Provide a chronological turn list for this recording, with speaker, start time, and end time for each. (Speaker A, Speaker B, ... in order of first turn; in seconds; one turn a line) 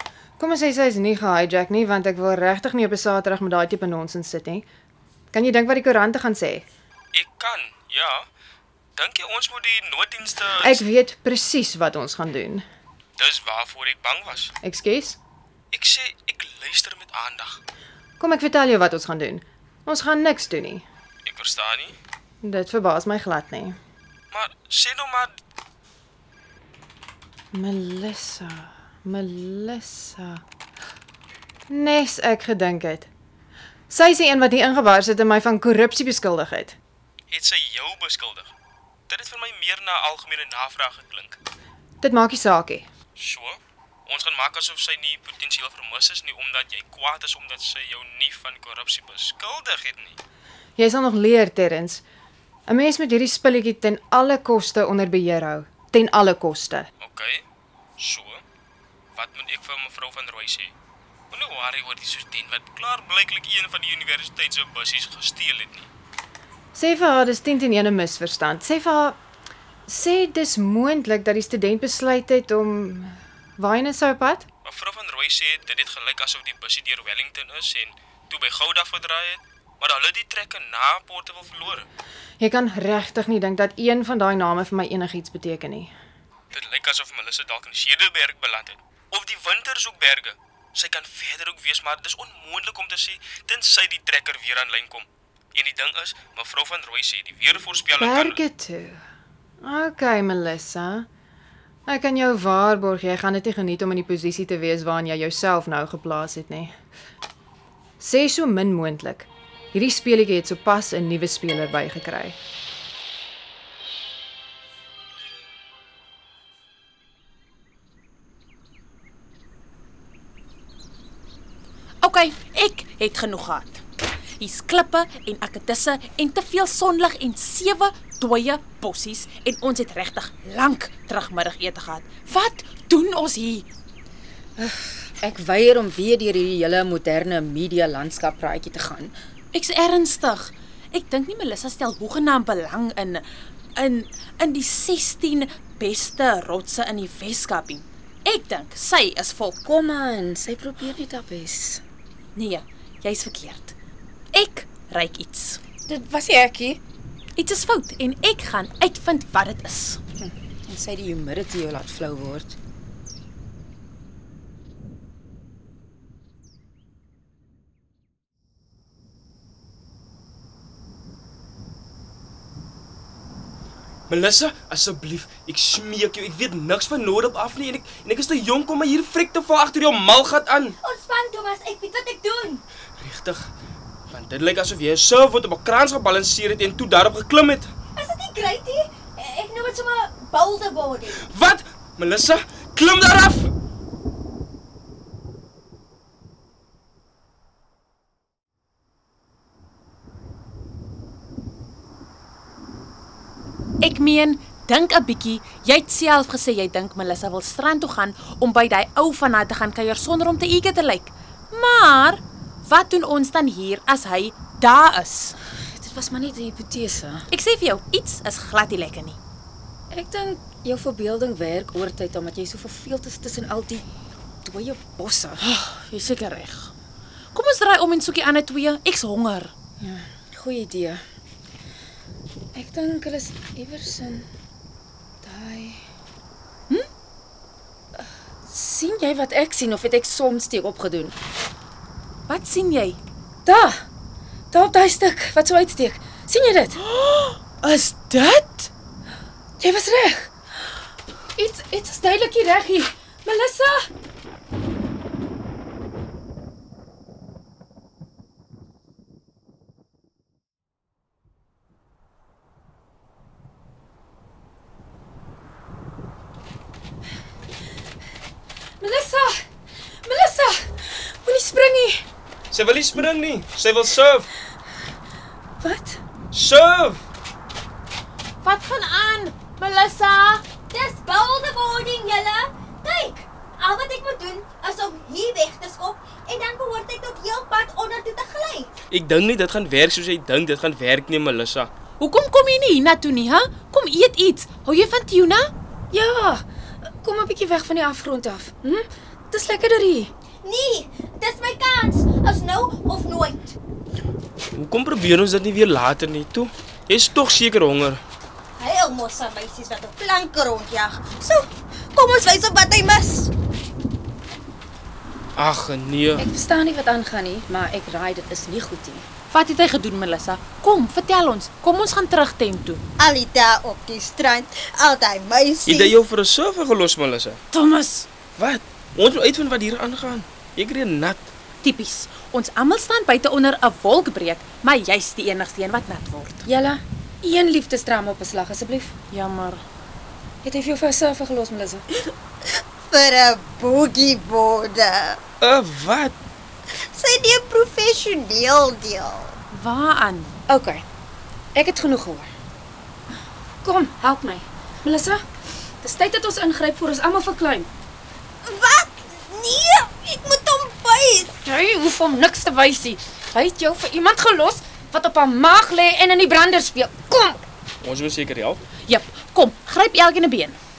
Speaker A: 0.4-4.7
Speaker A: 5.3-6.7
Speaker B: 7.1-8.3
Speaker B: 9.0-10.8
Speaker A: 10.6-12.7
Speaker B: 13.2-14.5
Speaker A: 14.6-15.2
Speaker B: 15.7-17.6
Speaker A: 18.2-20.8
Speaker B: 21.2-22.0
Speaker A: 22.4-23.8
Speaker B: 24.3-25.4
Speaker A: 27.5-30.4
Speaker A: 31.7-33.1
Speaker A: 33.9-36.8
Speaker B: 37.3-38.5
Speaker B: 39.1-41.4
Speaker A: 42.0-42.9
Speaker B: 43.2-50.2
Speaker A: 50.8-52.0
Speaker A: 52.7-56.9
Speaker B: 57.0-57.4
Speaker B: 58.0-58.4
Speaker B: 59.2-60.7
Speaker B: 61.3-65.9
Speaker A: 66.8-69.2
Speaker A: 69.9-74.5
Speaker B: 74.7-81.9
Speaker A: 82.4-85.9
Speaker B: 86.5-98.4
Speaker A: 98.0-99.0
Speaker A: 99.6-101.1
Speaker A: 101.9-106.8
Speaker A: 108.0-112.4
Speaker C: 122.0-123.8
Speaker C: 124.4-133.7
Speaker D: 134.6-139.2
Speaker C: 139.5-143.2
Speaker C: 143.8-149.6
Speaker D: 149.7-151.8
Speaker C: 152.3-153.8
Speaker C: 154.3-155.6
Speaker D: 155.9-156.8
Speaker C: 157.4-160.0
Speaker D: 160.2-162.6
Speaker B: 174.1-180.8
Speaker E: 180.8-182.6
Speaker B: 183.0-183.5
Speaker B: 184.1-187.7
Speaker E: 188.0-191.3
Speaker B: 191.2-193.5
Speaker C: 203.8-215.4
Speaker D: 215.5-217.3
Speaker C: 217.3-219.2
Speaker D: 219.9-223.9
Speaker D: 224.4-225.4
Speaker C: 225.4-226.7
Speaker C: 227.3-229.5
Speaker D: 229.8-231.0
Speaker D: 232.5-234.3
Speaker D: 235.2-235.8
Speaker D: 238.0-241.2
Speaker C: 242.3-243.0
Speaker D: 243.4-243.9
Speaker D: 244.5-246.8
Speaker C: 246.8-248.7
Speaker D: 249.6-250.3
Speaker D: 251.4-253.9
Speaker D: 268.8-269.5
Speaker D: 270.0-272.1
Speaker B: 272.5-274.3
Speaker D: 275.6-276.0
Speaker B: 276.3-277.0
Speaker C: 278.4-280.4
Speaker E: 280.7-288.7
Speaker B: 288.9-291.7
Speaker C: 292.0-295.5
Speaker D: 295.9-300.1
Speaker E: 300.4-303.6
Speaker B: 304.6-308.0
Speaker E: 308.6-313.3
Speaker B: 315.4-316.3
Speaker D: 316.2-319.1
Speaker C: 319.3-322.8
Speaker E: 323.0-326.0
Speaker B: 325.7-327.4
Speaker C: 327.5-328.1
Speaker B: 328.4-331.3
Speaker C: 331.6-336.4
Speaker D: 336.5-338.9
Speaker C: 339.1-339.6
Speaker D: 340.4-341.9
Speaker E: 342.9-345.2
Speaker B: 345.4-346.1
Speaker E: 346.9-349.4
Speaker C: 349.5-350.4
Speaker D: 350.5-350.9
Speaker D: 351.6-352.3
Speaker D: 353.6-355.2
Speaker D: 355.8-357.7
Speaker E: 358.4-361.4
Speaker D: 361.4-367.5
Speaker B: 367.8-368.6
Speaker C: 368.9-370.6